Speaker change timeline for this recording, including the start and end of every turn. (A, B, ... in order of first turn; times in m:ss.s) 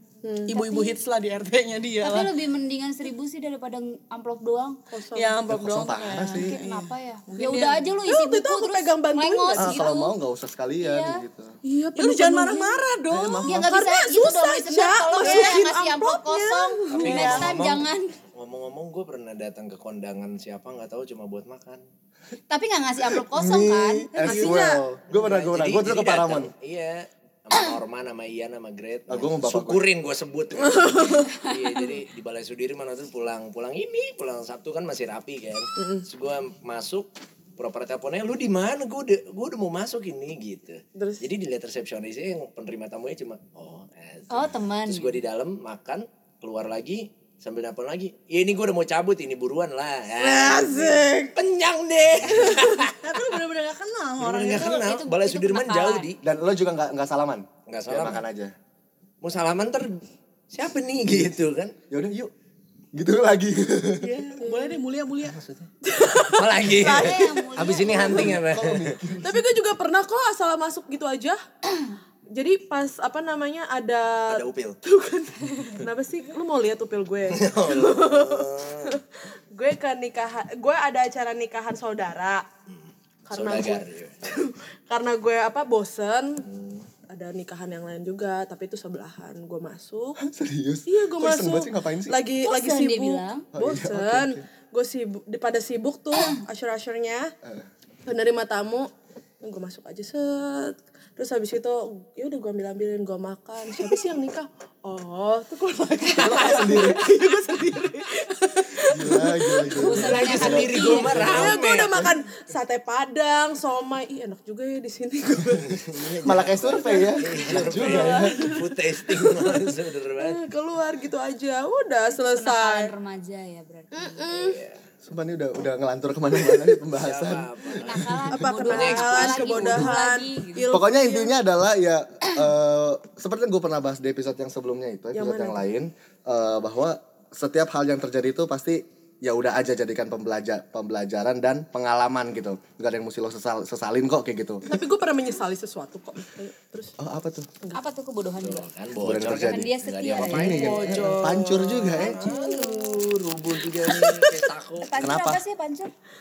0:00.2-0:00.6 A
0:00.5-0:02.3 B
0:00.6-0:01.0 C
0:02.0-0:04.8 C
0:04.9-0:05.4 A
0:05.1-0:07.8 B
0:05.5-0:06.5 D
0:06.3-0:10.1 C
0:08.0-0:09.9 A
0:09.6-0:11.6 D
0:10.8-0:11.2 C
0:11.6-0:12.8 A
0:12.0-0:13.8 B
0:13.1-0:13.7 D
0:13.4-0:18.1 C
0:13.6-0:15.6 A
0:14.6-0:17.6 B
0:16.9-0:21.8 E
0:17.0-0:17.4 A
0:22.5-0:24.5 C
0:23.0-0:26.5 D
0:24.2-0:24.8 A
0:25.1-0:53.1 E
0:29.1-0:29.8 D
0:30.6-0:31.5 A
0:35.8-0:36.0 A
0:41.0-0:41.2 A
0:44.3-0:45.2 C
0:50.2-0:50.6 B
0:50.3-0:51.4 A
0:52.4-0:52.7 A
0:52.6-0:54.8 B
0:54.2-0:56.2 E
0:54.6-0:56.1 C
0:56.2-0:58.5 D
0:57.7-0:58.2 E
0:59.2-1:01.7 E
1:01.9-1:02.3 D
1:02.9-1:04.2 D
1:04.0-1:05.4 B
1:04.4-1:04.8 A
1:05.2-1:05.7 E
1:05.8-1:07.3 A
1:06.3-1:09.0 E
1:06.8-1:08.3 C
1:06.8-1:07.3 B
1:08.1-1:09.4 D
1:09.2-1:11.4 A
1:12.3-1:22.4 A
1:14.3-1:14.8 E
1:17.3-1:19.0 E
1:22.7-1:24.2 E
1:23.3-1:26.4 A
1:26.4-1:26.9 E
1:27.1-1:30.2 A
1:30.2-1:32.2 D
1:30.9-1:37.3 A
1:32.4-1:33.4 C
1:33.5-1:34.4 D
1:38.0-1:38.9 A
1:39.4-1:55.8 A
1:46.1-1:47.0 D
1:48.9-1:52.1 D
1:49.7-1:51.4 C
1:49.9-1:52.0 E
1:55.6-2:00.4 E
1:56.2-1:58.4 D
1:56.7-1:59.5 A
2:00.2-2:02.9 A
2:02.1-2:04.4 C
2:03.9-2:04.6 A
2:04.3-2:04.8 E
2:05.0-2:07.5 D
2:06.9-2:09.7 E
2:07.8-2:10.7 C
2:08.0-2:08.4 D
2:08.3-2:11.3 A
2:10.7-2:24.6 D
2:15.1-2:15.6 A
2:24.6-2:26.9 A
2:27.0-2:27.5 D
2:27.7-2:28.7 C
2:28.4-2:34.9 E
2:29.0-2:29.7 D
2:29.5-2:31.2 C
2:30.3-2:32.2 D
2:30.6-2:31.4 A
2:32.0-2:32.9 C
2:32.2-2:33.0 A
2:33.9-2:34.4 A
2:34.8-2:35.9 C
2:35.0-2:35.4 D